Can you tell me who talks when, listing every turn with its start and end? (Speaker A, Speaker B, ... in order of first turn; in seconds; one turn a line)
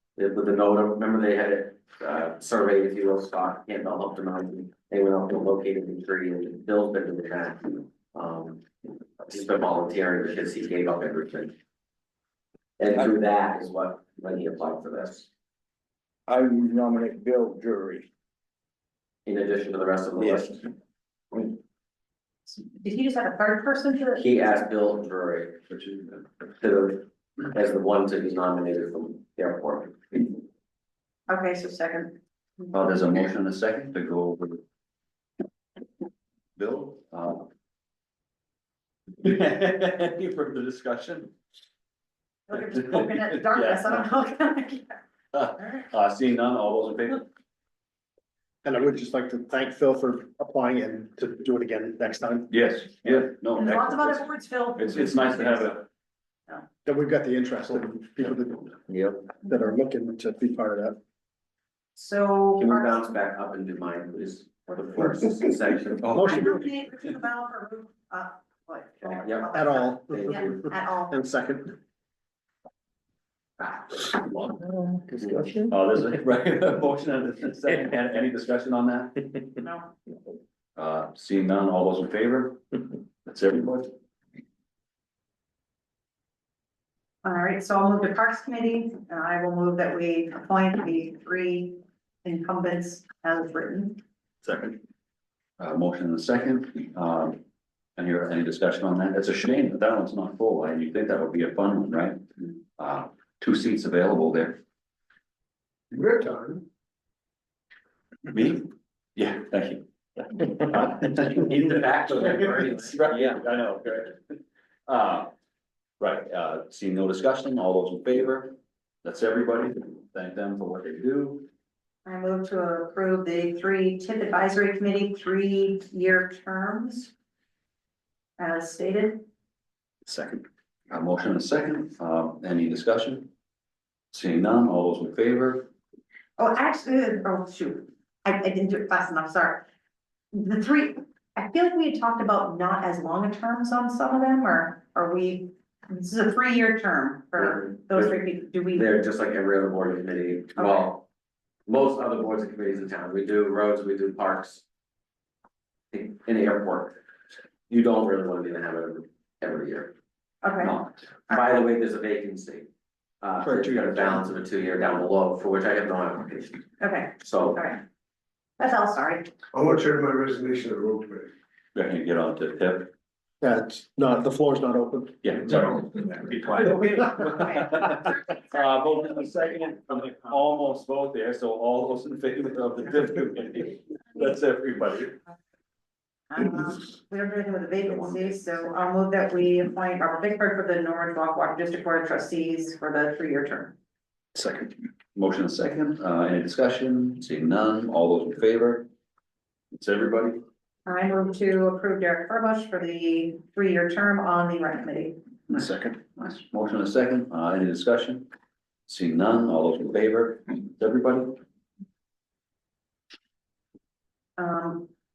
Speaker A: 0.2-8.6
Speaker A: 9.2-11.5
Speaker A: 12.8-15.3
Speaker B: 16.3-18.1
Speaker A: 19.2-20.7
Speaker B: 20.2-20.5
Speaker C: 22.5-24.3
Speaker A: 24.2-25.6
Speaker D: 25.7-26.1
Speaker A: 26.6-30.3
Speaker C: 31.3-32.2
Speaker D: 32.7-34.6
Speaker D: 36.5-37.5
Speaker D: 39.2-41.3
Speaker C: 42.5-45.0
Speaker D: 42.6-44.0
Speaker D: 45.3-47.3
Speaker C: 45.6-45.9
Speaker E: 48.6-52.5
Speaker D: 52.5-54.2
Speaker C: 53.5-55.7
Speaker D: 54.8-55.9
Speaker E: 56.8-58.7
Speaker D: 58.9-59.2
Speaker E: 59.4-61.0
Speaker C: 62.0-63.0
Speaker A: 62.6-66.2
Speaker C: 64.7-65.1
Speaker E: 66.1-66.6
Speaker C: 66.2-71.2
Speaker A: 69.2-69.6
Speaker E: 69.5-71.7
Speaker A: 70.1-70.6
Speaker D: 73.6-74.5
Speaker B: 74.7-75.7
Speaker D: 75.7-79.3
Speaker C: 79.6-79.9
Speaker D: 80.8-82.6
Speaker D: 83.2-83.9
Speaker C: 87.2-94.0
Speaker D: 94.4-94.8
Speaker D: 95.6-97.4
Speaker D: 98.0-102.3
Speaker D: 102.8-104.6
Speaker F: 105.9-106.6
Speaker D: 108.3-111.6
Speaker A: 111.1-113.4
Speaker D: 112.1-114.2
Speaker D: 114.9-115.3
Speaker D: 116.0-121.5
Speaker C: 122.0-127.1
Speaker C: 128.4-129.2
Speaker D: 130.0-133.3
Speaker D: 134.1-135.7
Speaker C: 136.4-139.6
Speaker C: 140.3-148.9
Speaker A: 147.4-148.2
Speaker A: 148.7-151.1
Speaker C: 150.6-150.8
Speaker A: 151.7-154.6
Speaker A: 155.9-157.0
Speaker A: 157.7-159.9
Speaker C: 160.4-161.4
Speaker D: 160.6-161.0
Speaker A: 161.3-162.7
Speaker A: 163.2-166.6
Speaker E: 163.4-164.1
Speaker C: 166.8-167.8
Speaker A: 167.2-167.7
Speaker C: 168.6-169.3
Speaker F: 169.5-171.3
Speaker D: 171.7-172.9
Speaker E: 173.4-175.2
Speaker D: 175.2-185.2
Speaker C: 186.3-193.7
Speaker D: 187.8-188.7
Speaker D: 194.3-198.9
Speaker D: 199.7-200.4
Speaker C: 200.8-205.2
Speaker D: 205.5-208.3
Speaker D: 208.9-211.4
Speaker C: 214.4-214.9